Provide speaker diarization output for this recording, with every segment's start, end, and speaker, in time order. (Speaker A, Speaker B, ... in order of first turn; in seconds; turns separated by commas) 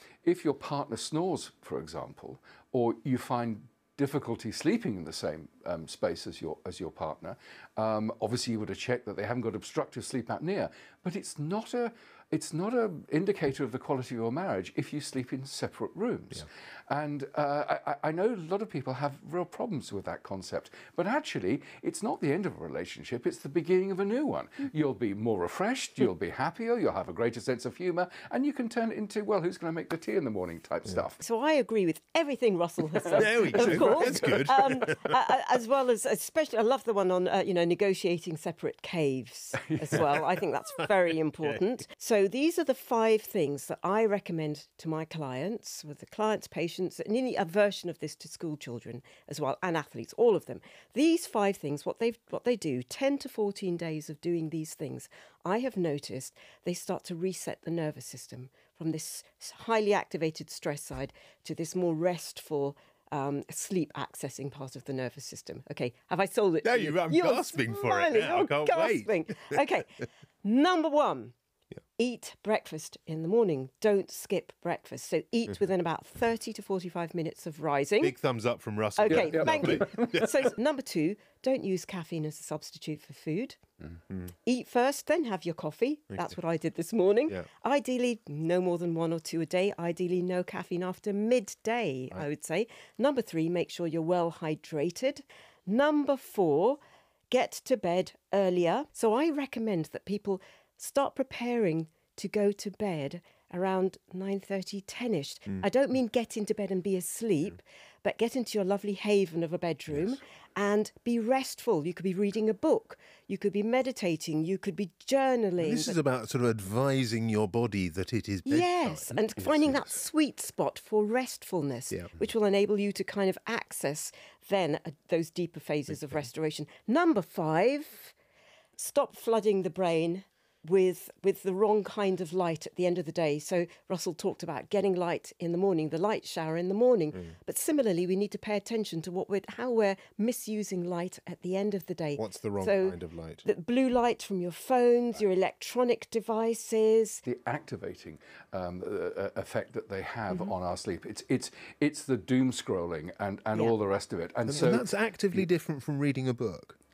Speaker A: 0.2-31.2, Speaker B: 31.2-71.3, Speaker A: 33.1-34.7, Speaker C: 33.2-35.2, Speaker A: 39.6-40.1, Speaker C: 66.6-69.6, Speaker B: 72.0-78.2, Speaker C: 78.0-80.3, Speaker B: 79.0-83.6, Speaker A: 79.1-80.3, Speaker B: 84.5-96.8, Speaker B: 97.3-116.0, Speaker C: 115.6-119.2, Speaker B: 118.5-128.2, Speaker B: 128.8-147.2, Speaker C: 142.2-143.4, Speaker A: 147.2-154.9, Speaker C: 154.5-156.8